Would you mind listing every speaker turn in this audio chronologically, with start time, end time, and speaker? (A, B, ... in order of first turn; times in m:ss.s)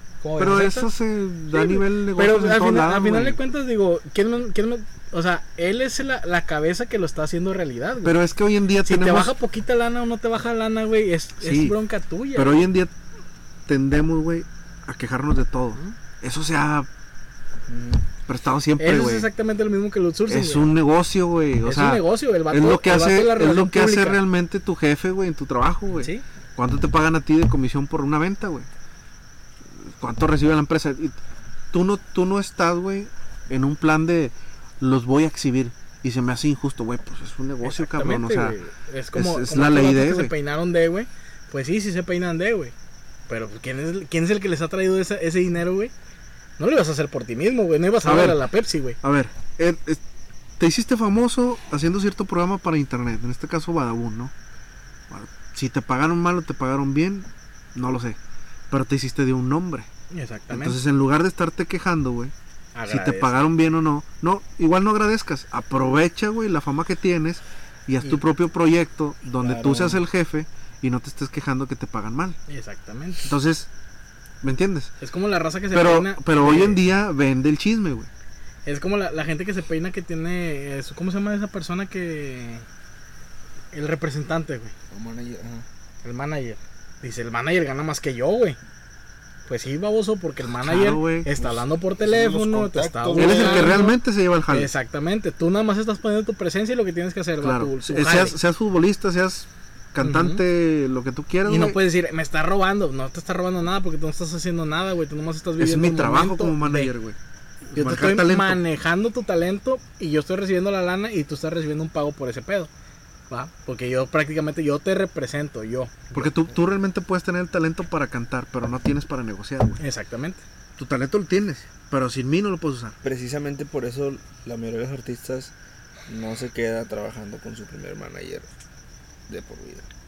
0:00.2-0:00.9 A
0:00.4-0:03.4 B
0:01.5-0:08.2 A
0:08.0-0:09.3 B
0:08.8-0:12.7 A
0:11.4-0:11.8 B
0:12.4-0:13.0 B
0:13.7-0:16.9 B
0:17.7-0:18.0 C
0:18.3-0:19.3 B
0:18.8-0:20.7 A
0:20.3-0:28.7 B
0:21.6-0:24.2 A
0:29.8-0:31.2 B
0:31.7-0:38.6 B
0:37.6-0:42.7 A
0:39.1-0:40.3 B
0:43.3-0:45.9 A
0:46.6-0:49.0 A
0:48.0-0:48.4 B
0:49.0-0:50.0 B
0:50.6-0:54.3 B
0:55.1-0:58.2 B
0:58.7-0:59.9 B
1:00.1-1:00.8 A
1:00.5-1:02.3 B
1:02.8-1:03.4 A
1:02.9-1:12.4 B
1:09.4-1:10.0 A
1:12.5-1:13.3 A
1:13.2-1:13.7 B
1:14.4-1:14.9 B
1:15.0-1:16.8 A
1:15.7-1:18.1 B
1:18.7-1:22.6 A
1:23.7-1:24.7 A
1:24.9-1:25.6 C
1:26.0-1:28.6 A
1:29.5-1:38.4 A
1:30.6-1:31.3 B
1:31.4-1:33.8 C
1:33.2-1:34.7 B
1:37.4-1:41.8 B
1:40.0-1:40.4 A
1:41.5-1:46.9 A
1:45.6-1:47.2 B
1:47.7-1:52.7 A
1:47.8-1:48.6 B
1:53.3-1:56.3 A
1:56.1-1:59.8 B
1:59.8-2:00.4 A
2:00.8-2:03.0 B
2:03.0-2:05.5 C
2:06.1-2:08.5 C
2:09.3-2:09.9 C